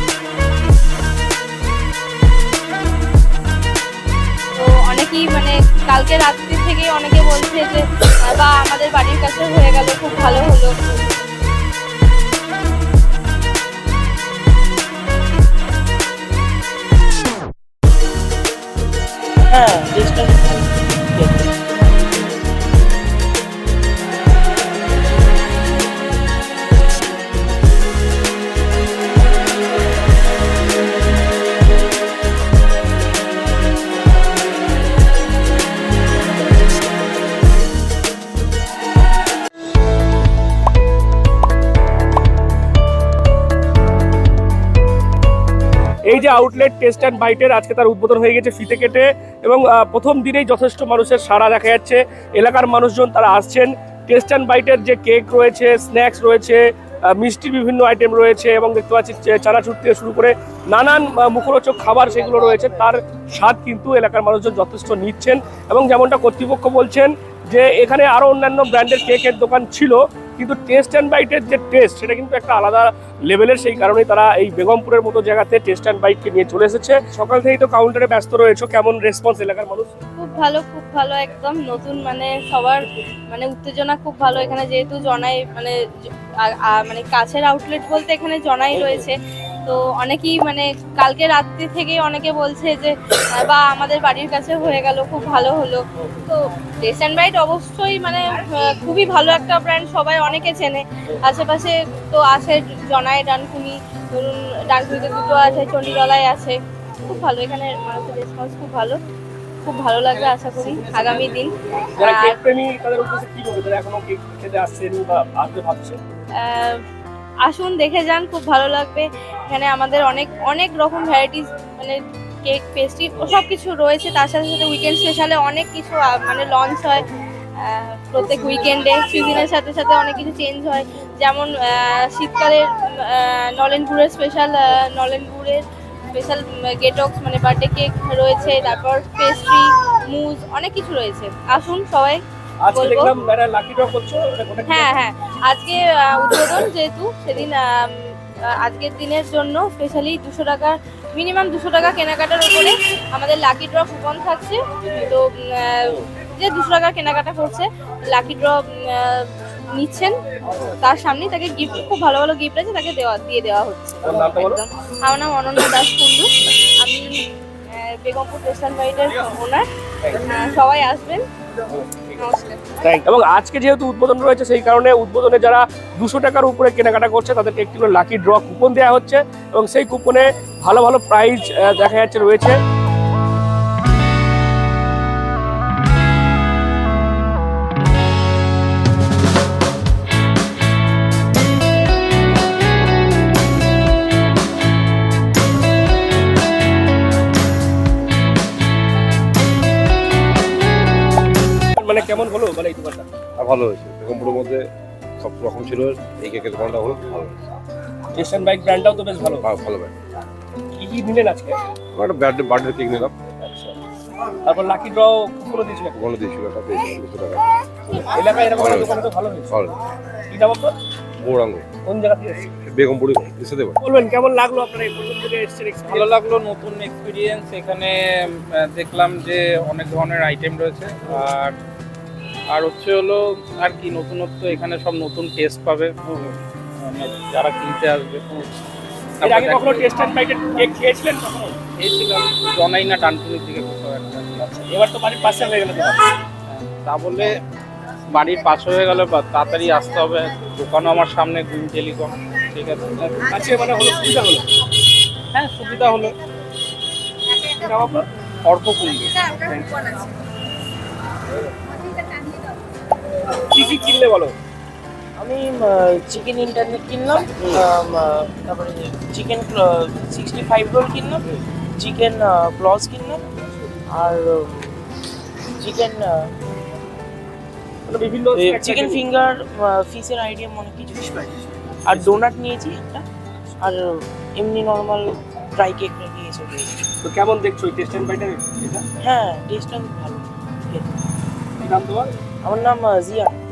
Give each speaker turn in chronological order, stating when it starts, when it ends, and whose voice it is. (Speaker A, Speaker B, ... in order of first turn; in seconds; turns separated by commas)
Speaker A: 4.6-10.7, Speaker B: 19.5-21.5, Speaker C: 46.1-80.0, Speaker A: 80.2-109.0, Speaker A: 109.7-112.4, Speaker C: 112.0-116.0, Speaker A: 116.3-116.8, Speaker A: 117.5-143.1, Speaker C: 142.6-144.9, Speaker A: 144.7-171.3, Speaker C: 164.0-164.6, Speaker C: 171.7-172.1, Speaker A: 172.2-172.8, Speaker C: 172.8-182.6, Speaker C: 201.8-203.1, Speaker D: 203.4-204.7, Speaker D: 205.2-207.4, Speaker C: 208.1-209.5, Speaker D: 209.4-209.9, Speaker C: 210.7-211.6, Speaker D: 211.9-213.1, Speaker C: 213.4-213.7, Speaker C: 214.5-216.0, Speaker D: 216.0-217.5, Speaker C: 218.0-219.5, Speaker D: 218.6-219.0, Speaker C: 220.3-220.7, Speaker D: 221.2-221.7, Speaker C: 221.8-222.5, Speaker D: 222.7-223.8, Speaker C: 223.8-226.1, Speaker E: 225.9-231.6, Speaker E: 232.5-238.5, Speaker E: 239.2-239.9, Speaker C: 239.2-241.6, Speaker E: 241.8-244.4, Speaker C: 244.4-246.0, Speaker E: 246.5-247.4, Speaker E: 248.1-252.9, Speaker C: 253.0-254.4, Speaker E: 255.3-256.1, Speaker C: 257.4-258.1, Speaker E: 258.4-259.9, Speaker C: 263.3-264.3, Speaker B: 265.2-271.2, Speaker B: 271.8-273.2, Speaker B: 273.9-274.8, Speaker B: 275.6-276.4, Speaker C: 277.9-279.1, Speaker B: 278.3-283.1, Speaker B: 283.6-286.8, Speaker C: 287.0-288.8, Speaker B: 289.0-291.0, Speaker C: 291.6-292.1, Speaker B: 292.4-293.4